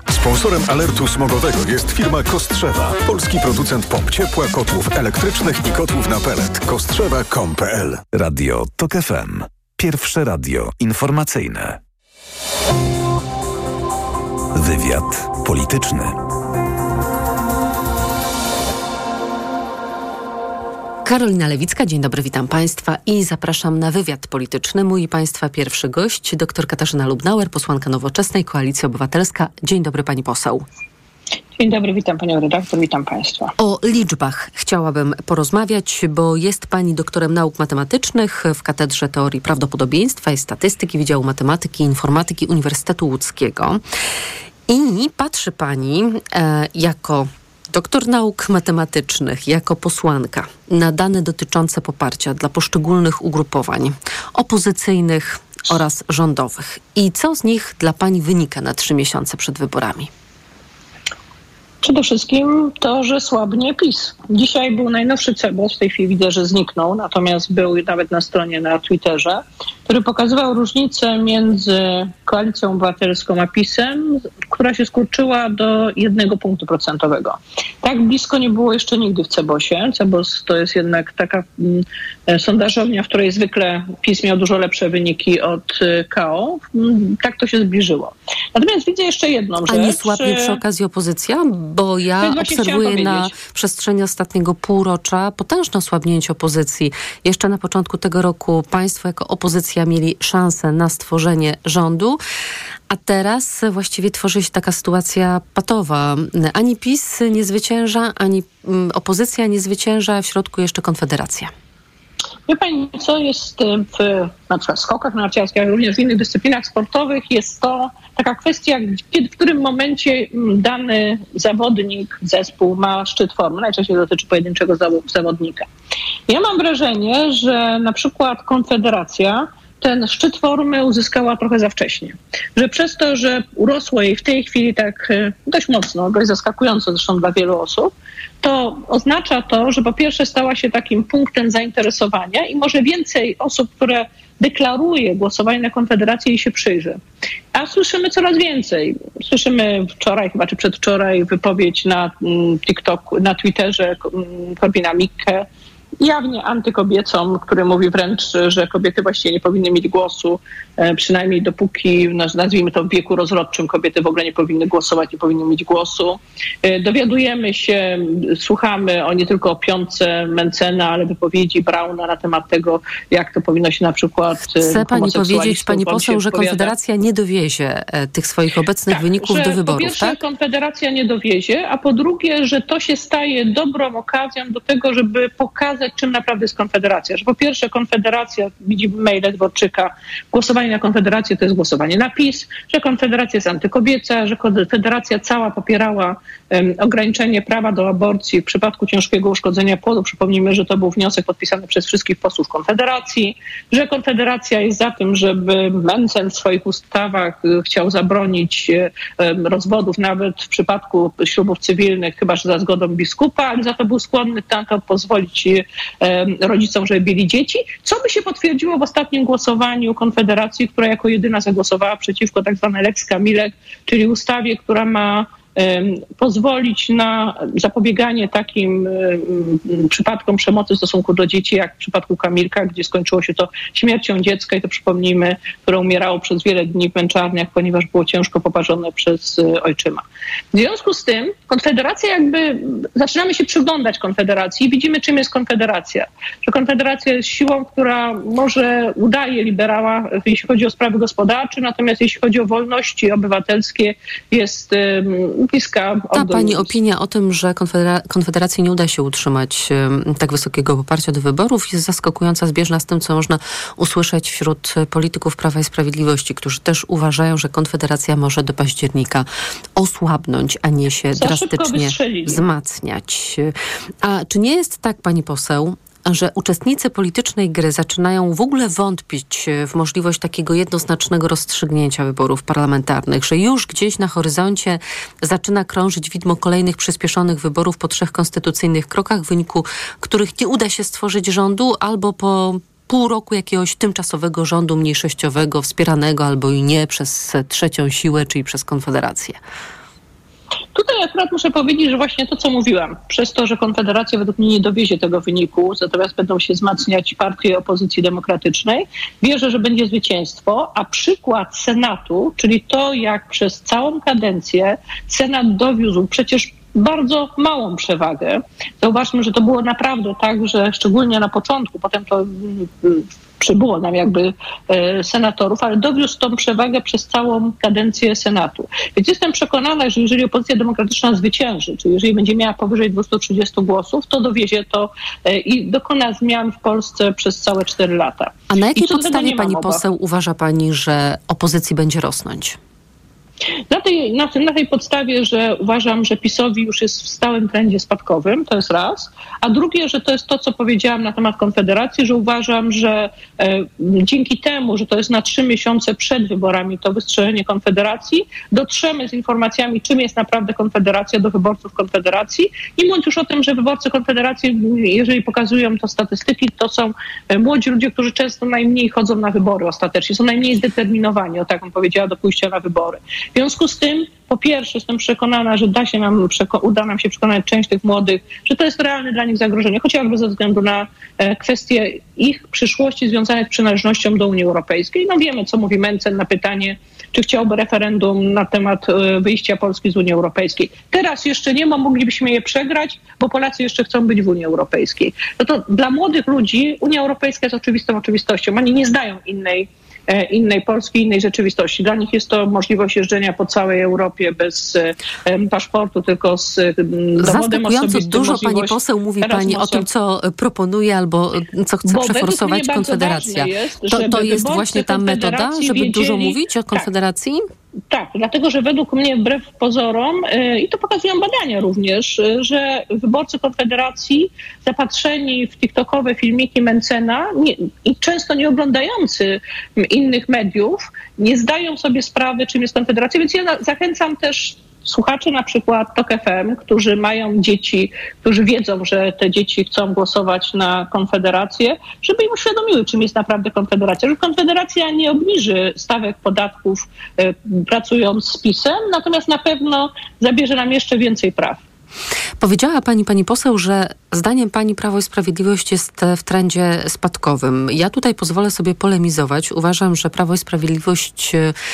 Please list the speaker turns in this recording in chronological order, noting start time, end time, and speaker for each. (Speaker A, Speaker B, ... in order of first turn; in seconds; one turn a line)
Speaker A: 0.1-8.0
Speaker B: 8.1-11.8
Speaker B: 14.5-16.2
Speaker C: 21.1-30.6
Speaker D: 31.6-33.5
Speaker C: 33.6-43.8
Speaker C: 44.7-60.1
Speaker D: 61.8-90.6
Speaker C: 89.7-102.2
Speaker D: 92.2-93.3
Speaker C: 102.9-111.5
Speaker D: 112.5-125.7
Speaker D: 126.3-147.0
Speaker D: 147.6-155.4
Speaker D: 156.0-176.7
Speaker C: 174.5-180.2
Speaker D: 178.9-256.7
Speaker C: 256.1-299.4
Speaker D: 271.2-272.4
Speaker D: 300.8-339.8
Speaker C: 338.5-342.6
Speaker D: 343.7-409.9
Speaker C: 407.2-417.5
Speaker D: 411.9-416.9
Speaker D: 417.9-451.6
Speaker C: 452.4-461.5